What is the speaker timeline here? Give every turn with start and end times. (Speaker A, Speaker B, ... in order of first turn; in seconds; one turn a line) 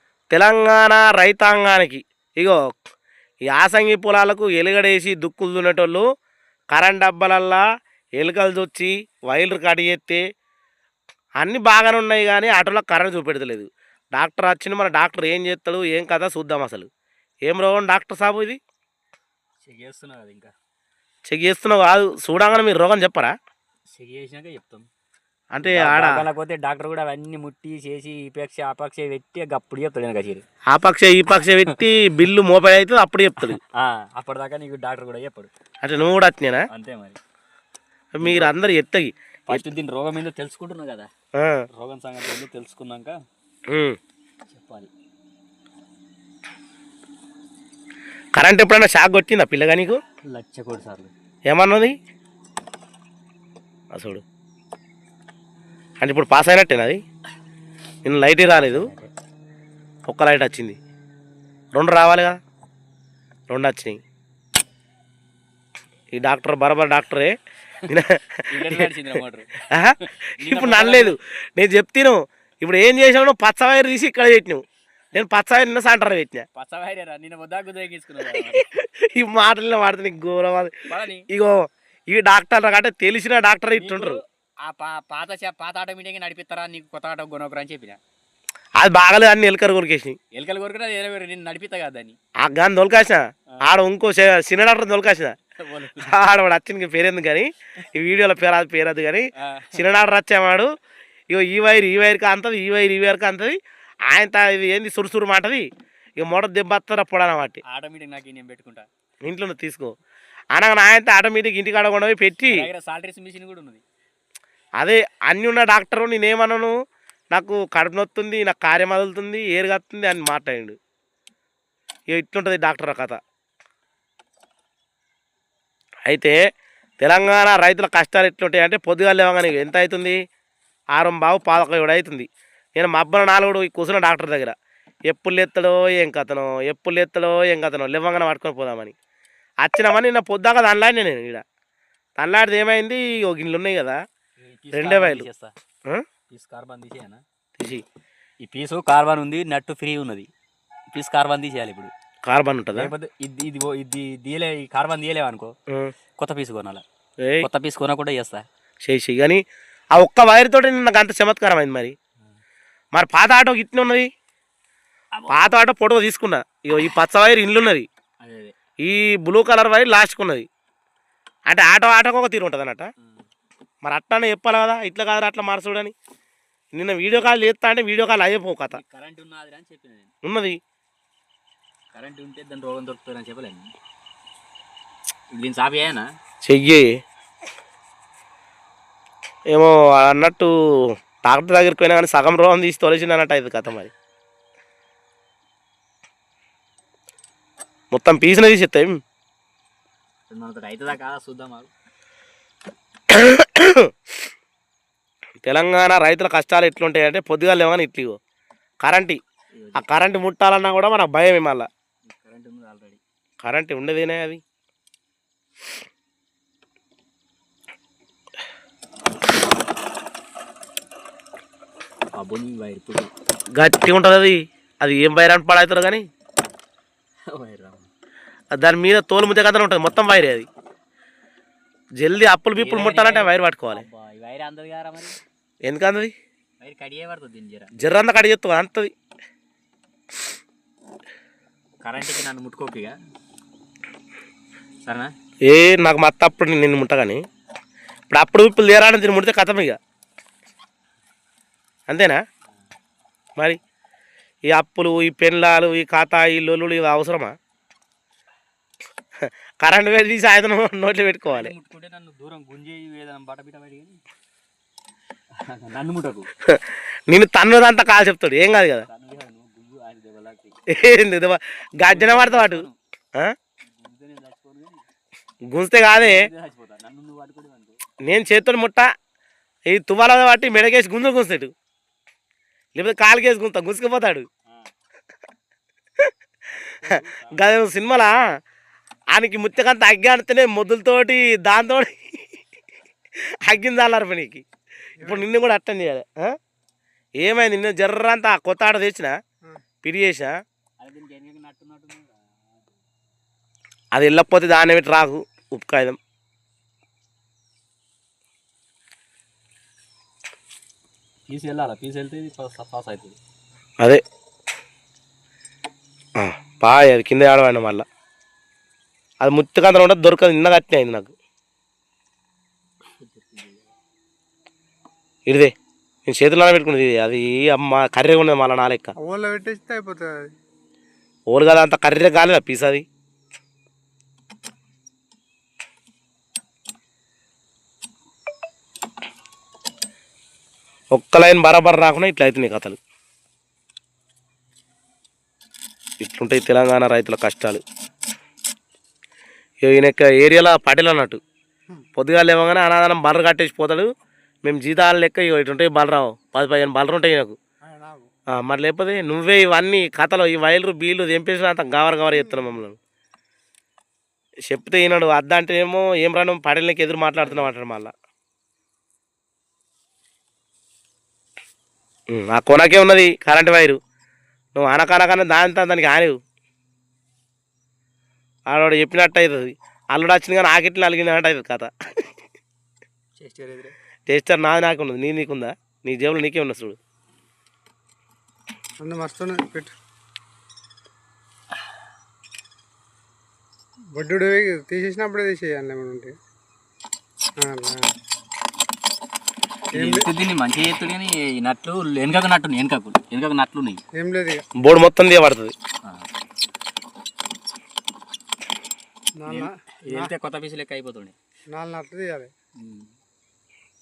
Speaker A: 0.3-2.6
Speaker A: 3.5-6.0
Speaker A: 6.7-7.6
Speaker A: 8.2-10.2
Speaker A: 11.4-16.9
Speaker A: 17.4-18.6
Speaker B: 19.6-20.5
Speaker A: 21.3-23.3
Speaker B: 23.9-24.9
Speaker A: 25.5-26.2
Speaker B: 25.6-30.4
Speaker A: 30.7-33.6
Speaker B: 33.4-35.5
Speaker A: 35.8-36.6
Speaker B: 36.7-37.2
Speaker A: 38.2-39.6
Speaker B: 38.2-38.5
Speaker B: 39.5-41.1
Speaker A: 41.4-41.6
Speaker B: 41.7-43.1
Speaker A: 43.7-44.0
Speaker B: 44.5-44.9
Speaker A: 48.4-50.0
Speaker B: 50.3-51.1
Speaker A: 51.5-51.9
Speaker A: 53.9-54.2
Speaker A: 56.0-57.0
Speaker A: 58.0-58.9
Speaker B: 58.5-59.1
Speaker A: 60.1-60.8
Speaker A: 61.7-62.4
Speaker A: 63.5-64.0
Speaker A: 66.1-67.3
Speaker A: 67.9-68.9
Speaker B: 68.5-71.2
Speaker A: 69.7-74.6
Speaker A: 75.1-76.5
Speaker B: 76.5-78.7
Speaker A: 78.3-80.7
Speaker B: 80.9-81.2
Speaker A: 81.3-84.2
Speaker B: 83.7-88.0
Speaker A: 88.8-90.2
Speaker B: 90.3-92.2
Speaker A: 92.4-95.3
Speaker B: 95.6-96.1
Speaker A: 96.0-100.7
Speaker B: 99.4-99.8
Speaker A: 101.3-103.6
Speaker A: 104.1-105.6
Speaker A: 106.2-107.6
Speaker B: 107.6-108.9
Speaker A: 109.2-109.9
Speaker A: 110.5-112.7
Speaker B: 112.5-113.8
Speaker A: 114.8-116.7
Speaker A: 117.3-120.8
Speaker A: 122.1-123.2
Speaker A: 126.0-126.4
Speaker A: 127.0-130.2
Speaker A: 130.9-134.5
Speaker A: 135.1-138.9
Speaker A: 139.6-141.4
Speaker A: 142.2-144.0
Speaker B: 144.4-145.5
Speaker A: 144.7-145.2
Speaker B: 146.3-147.2
Speaker A: 147.6-147.8
Speaker B: 148.4-150.3
Speaker B: 150.9-151.9
Speaker A: 152.2-152.9
Speaker B: 152.7-155.5
Speaker B: 156.2-156.8
Speaker A: 157.2-157.5
Speaker B: 157.4-158.4
Speaker A: 158.8-159.4
Speaker A: 159.9-161.9
Speaker A: 162.9-164.1
Speaker B: 165.1-165.5
Speaker A: 165.3-167.9
Speaker B: 168.2-168.5
Speaker A: 168.8-170.5
Speaker A: 171.5-172.9
Speaker A: 173.8-175.9
Speaker A: 176.7-178.8
Speaker B: 178.7-180.1
Speaker A: 180.2-180.6
Speaker B: 181.9-183.7
Speaker B: 185.3-186.1
Speaker A: 186.4-186.8
Speaker A: 189.5-190.5
Speaker A: 191.2-193.9
Speaker A: 197.9-199.0
Speaker B: 200.3-201.7
Speaker A: 203.1-203.9
Speaker A: 205.4-208.2
Speaker A: 208.8-209.2
Speaker B: 209.5-209.8
Speaker A: 209.8-211.7
Speaker B: 212.1-213.0
Speaker A: 213.4-214.4
Speaker B: 222.2-223.1
Speaker A: 223.6-226.0
Speaker B: 227.3-227.9
Speaker A: 228.5-230.5
Speaker A: 232.0-233.8
Speaker B: 232.6-235.2
Speaker A: 235.7-236.1
Speaker B: 236.6-237.7
Speaker A: 237.8-238.9
Speaker B: 241.8-242.9
Speaker B: 244.8-245.1
Speaker A: 245.4-247.2
Speaker A: 248.1-249.8
Speaker A: 251.9-252.2
Speaker A: 254.5-257.3
Speaker A: 259.2-261.5
Speaker B: 261.3-264.0
Speaker B: 265.4-266.3
Speaker A: 266.5-268.9
Speaker B: 268.9-270.7
Speaker A: 270.7-273.3
Speaker B: 271.8-272.8
Speaker B: 273.7-274.8
Speaker A: 275.5-276.3
Speaker B: 276.0-277.8
Speaker A: 278.0-278.9
Speaker A: 279.7-281.5
Speaker A: 282.7-284.2
Speaker B: 286.6-287.4
Speaker A: 286.8-288.1
Speaker A: 289.1-292.0
Speaker A: 293.4-294.4
Speaker C: 295.0-295.2
Speaker A: 295.0-296.4
Speaker A: 297.2-299.1
Speaker A: 299.8-300.4
Speaker B: 300.8-302.7
Speaker A: 303.9-306.0
Speaker B: 311.3-313.2
Speaker A: 316.2-317.9
Speaker A: 319.2-321.1
Speaker B: 323.0-323.7
Speaker A: 325.3-325.5
Speaker A: 326.1-328.9
Speaker C: 329.0-330.3
Speaker A: 331.3-332.8
Speaker A: 340.9-342.8
Speaker A: 346.0-347.6
Speaker A: 349.6-351.2
Speaker A: 351.9-353.9
Speaker A: 354.4-357.4
Speaker C: 357.6-358.1
Speaker A: 358.3-362.8
Speaker C: 362.1-362.5
Speaker A: 364.5-367.9
Speaker A: 372.1-373.8
Speaker A: 374.5-376.2
Speaker A: 378.5-381.7
Speaker B: 383.2-383.7
Speaker A: 384.1-386.8
Speaker C: 388.8-389.7
Speaker C: 393.9-396.1
Speaker C: 397.4-397.9
Speaker B: 399.7-403.8
Speaker C: 399.7-400.1
Speaker C: 403.9-404.4
Speaker A: 404.6-405.5
Speaker C: 409.2-410.1
Speaker B: 409.2-411.1
Speaker C: 411.5-412.3
Speaker B: 412.6-412.9